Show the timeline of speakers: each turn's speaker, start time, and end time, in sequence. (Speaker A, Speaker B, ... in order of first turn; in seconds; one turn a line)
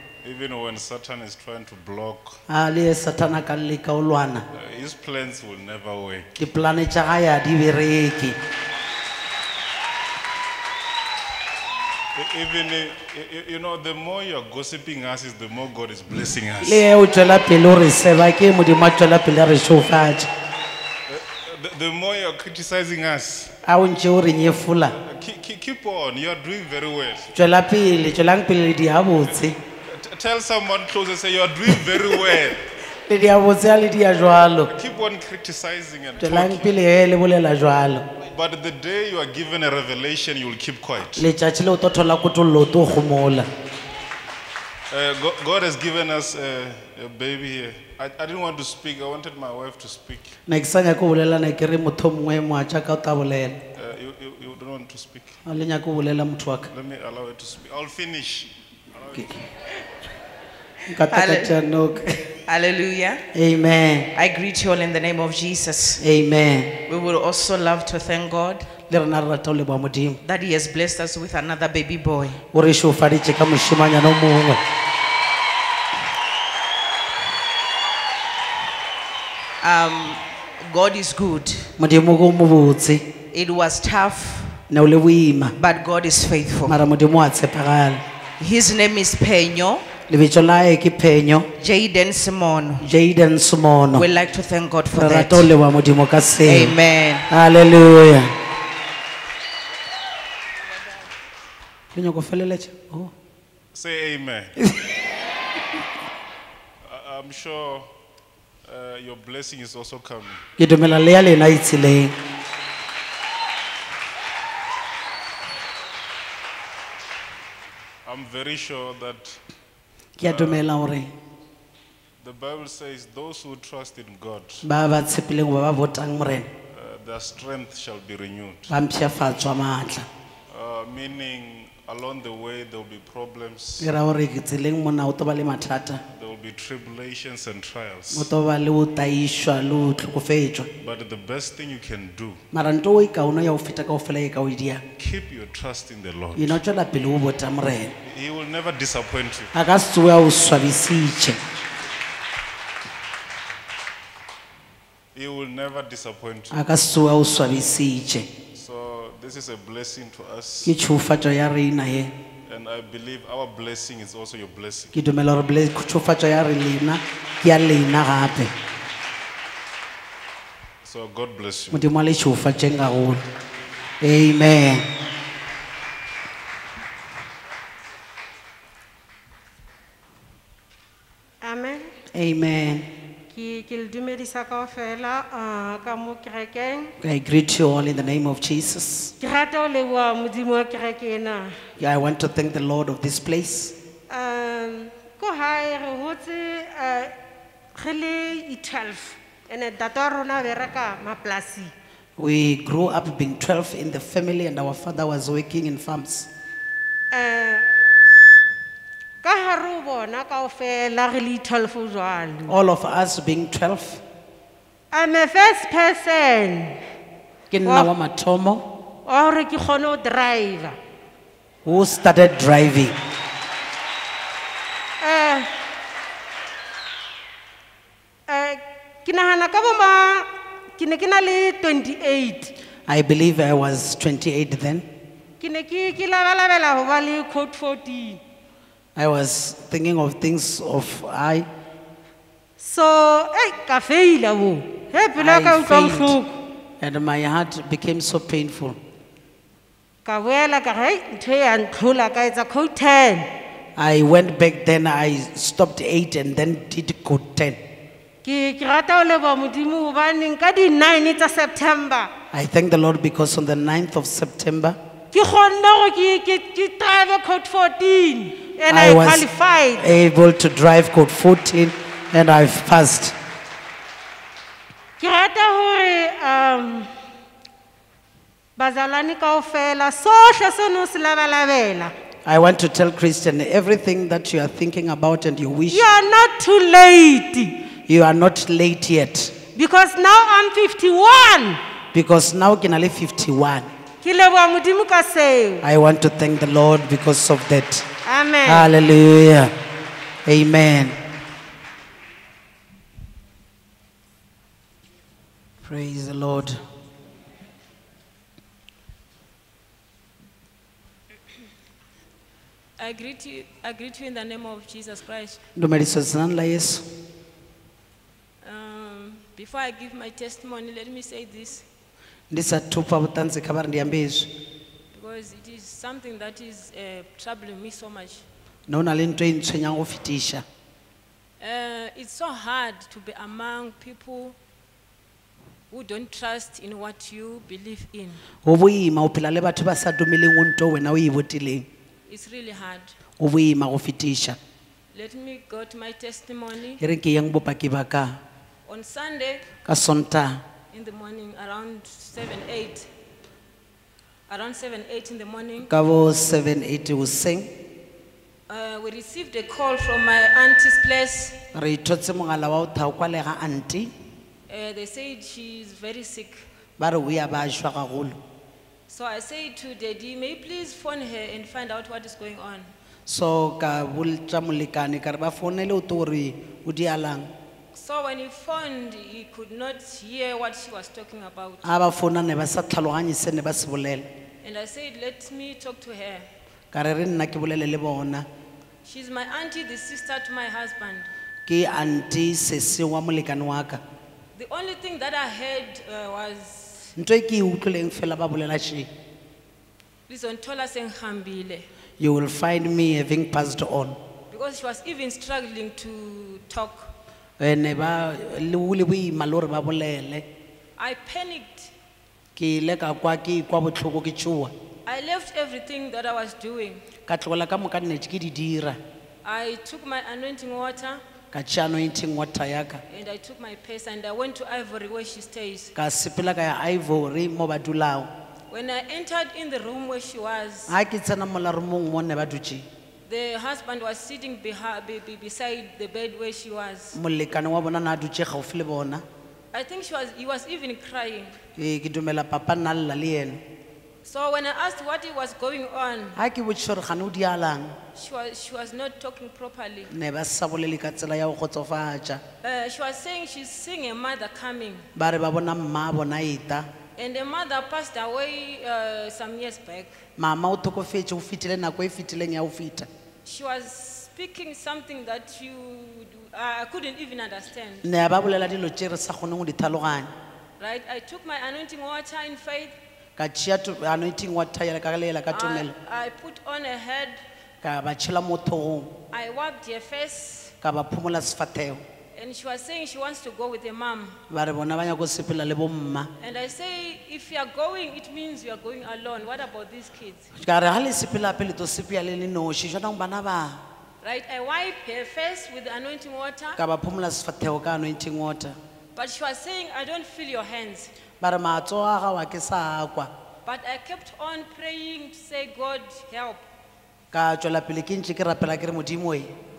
Speaker A: 0.2-2.4
Speaker B: 2.5-4.5
Speaker A: 4.5-6.3
Speaker B: 6.4-8.4
Speaker A: 12.2-16.8
Speaker B: 16.6-20.3
Speaker A: 21.1-23.5
Speaker B: 23.7-24.9
Speaker A: 25.0-27.3
Speaker B: 27.4-29.6
Speaker A: 29.8-32.6
Speaker B: 33.1-34.7
Speaker A: 34.7-36.7
Speaker B: 36.2-38.0
Speaker A: 38.3-41.2
Speaker B: 41.2-43.5
Speaker A: 44.9-50.4
Speaker B: 50.5-53.6
Speaker A: 53.8-55.4
Speaker B: 55.5-56.7
Speaker A: 56.7-59.3
Speaker B: 60.9-62.2
Speaker C: 61.1-61.5
Speaker C: 62.5-63.2
Speaker B: 63.3-64.1
Speaker C: 64.1-66.0
Speaker B: 66.0-66.7
Speaker C: 66.9-68.7
Speaker B: 68.9-70.2
Speaker C: 70.2-72.4
Speaker B: 72.5-74.6
Speaker C: 79.6-81.7
Speaker B: 81.8-83.1
Speaker C: 83.3-84.6
Speaker B: 84.7-85.6
Speaker C: 85.6-86.8
Speaker B: 86.7-88.0
Speaker C: 88.4-89.8
Speaker B: 90.1-91.5
Speaker C: 91.6-92.8
Speaker B: 92.8-94.1
Speaker C: 93.9-95.5
Speaker B: 94.9-96.8
Speaker C: 96.5-97.3
Speaker B: 97.3-98.3
Speaker B: 102.0-103.1
Speaker A: 103.7-104.5
Speaker A: 106.8-107.9
Speaker A: 108.7-110.4
Speaker B: 110.6-112.1
Speaker A: 118.0-119.4
Speaker B: 120.2-121.1
Speaker A: 120.2-120.6
Speaker A: 122.2-124.6
Speaker B: 124.6-126.5
Speaker A: 126.7-128.7
Speaker B: 128.7-130.1
Speaker A: 130.5-133.9
Speaker B: 133.8-136.0
Speaker A: 136.1-138.3
Speaker B: 138.1-140.7
Speaker A: 140.8-142.4
Speaker B: 142.5-144.8
Speaker A: 145.0-146.6
Speaker B: 146.4-147.9
Speaker A: 148.1-149.5
Speaker B: 149.5-151.4
Speaker A: 155.1-156.6
Speaker B: 156.5-158.3
Speaker A: 158.5-160.7
Speaker B: 160.7-162.1
Speaker A: 162.5-164.9
Speaker B: 164.9-168.5
Speaker A: 170.8-171.8
Speaker B: 171.7-173.2
Speaker B: 174.0-174.8
Speaker D: 181.4-181.9
Speaker B: 182.1-182.9
Speaker D: 183.3-186.9
Speaker B: 187.0-189.1
Speaker D: 189.2-191.6
Speaker B: 191.8-193.7
Speaker D: 194.1-197.1
Speaker D: 197.8-201.7
Speaker B: 202.2-206.3
Speaker D: 207.1-207.7
Speaker D: 209.2-212.5
Speaker B: 212.5-214.0
Speaker D: 214.9-216.8
Speaker B: 217.5-218.6
Speaker D: 217.7-217.9
Speaker D: 219.1-220.8
Speaker B: 221.7-222.9
Speaker D: 225.0-225.5
Speaker D: 228.3-232.5
Speaker B: 232.9-234.9
Speaker D: 235.4-238.2
Speaker B: 239.0-241.5
Speaker D: 242.6-246.3
Speaker B: 245.2-246.2
Speaker B: 246.8-248.8
Speaker D: 250.1-253.3
Speaker B: 253.8-257.6
Speaker D: 258.2-262.1
Speaker B: 262.3-264.8
Speaker D: 265.1-269.8
Speaker B: 268.7-269.3
Speaker B: 269.8-273.1
Speaker D: 275.0-276.9
Speaker D: 278.6-281.9
Speaker B: 282.3-285.8
Speaker D: 285.7-287.6
Speaker B: 287.9-289.3
Speaker D: 289.6-291.6
Speaker B: 291.9-293.7
Speaker D: 294.0-295.6
Speaker B: 295.6-297.9
Speaker D: 298.1-298.7
Speaker B: 298.4-299.5
Speaker B: 300.3-300.9
Speaker B: 305.6-306.6
Speaker E: 312.8-315.4
Speaker B: 315.6-316.8
Speaker E: 318.4-321.6
Speaker B: 322.3-324.3
Speaker E: 324.9-328.2
Speaker B: 328.7-330.4
Speaker E: 331.4-334.4
Speaker E: 335.7-338.2
Speaker B: 338.4-341.7
Speaker E: 342.1-342.9
Speaker B: 343.2-344.4
Speaker E: 344.9-346.8
Speaker B: 346.8-348.2
Speaker E: 348.7-349.5
Speaker B: 349.7-350.4
Speaker E: 350.7-352.9
Speaker E: 354.3-355.7
Speaker B: 355.7-357.5
Speaker E: 358.5-361.4
Speaker B: 361.5-363.9
Speaker E: 364.5-366.4
Speaker B: 366.8-368.2
Speaker E: 368.9-372.7
Speaker B: 373.1-377.3
Speaker E: 377.7-381.7
Speaker B: 381.6-384.1
Speaker E: 384.4-386.3
Speaker B: 386.7-388.3
Speaker E: 388.9-391.1
Speaker B: 391.5-393.8
Speaker E: 394.4-396.9
Speaker B: 397.0-398.9
Speaker E: 400.1-401.7
Speaker B: 402.0-404.0
Speaker E: 404.3-406.9
Speaker B: 407.4-410.3
Speaker E: 410.8-411.7
Speaker B: 412.4-414.5
Speaker E: 414.9-416.8
Speaker B: 417.1-418.8
Speaker E: 419.2-421.0
Speaker B: 421.3-422.8
Speaker E: 422.9-425.7
Speaker B: 425.8-428.1
Speaker E: 428.5-430.7
Speaker B: 430.7-432.7
Speaker E: 433.1-436.9
Speaker B: 436.9-439.0
Speaker E: 439.5-441.4
Speaker B: 441.6-443.4
Speaker E: 444.1-446.2
Speaker B: 446.1-447.8
Speaker E: 448.0-449.9
Speaker B: 449.9-452.2
Speaker E: 452.4-454.8
Speaker B: 455.0-456.7
Speaker E: 457.0-459.9
Speaker B: 460.2-462.9
Speaker E: 463.2-467.8
Speaker B: 467.8-470.1
Speaker E: 470.6-472.8
Speaker B: 473.2-475.7
Speaker E: 475.3-477.2
Speaker B: 477.6-478.9
Speaker E: 479.1-480.5
Speaker B: 480.6-481.8
Speaker E: 482.2-484.2
Speaker B: 484.3-486.1
Speaker E: 486.2-490.3
Speaker B: 490.4-493.6
Speaker E: 494.0-496.6
Speaker B: 496.6-498.6
Speaker E: 498.9-500.9
Speaker B: 501.2-503.1
Speaker E: 503.4-506.4
Speaker B: 507.1-509.3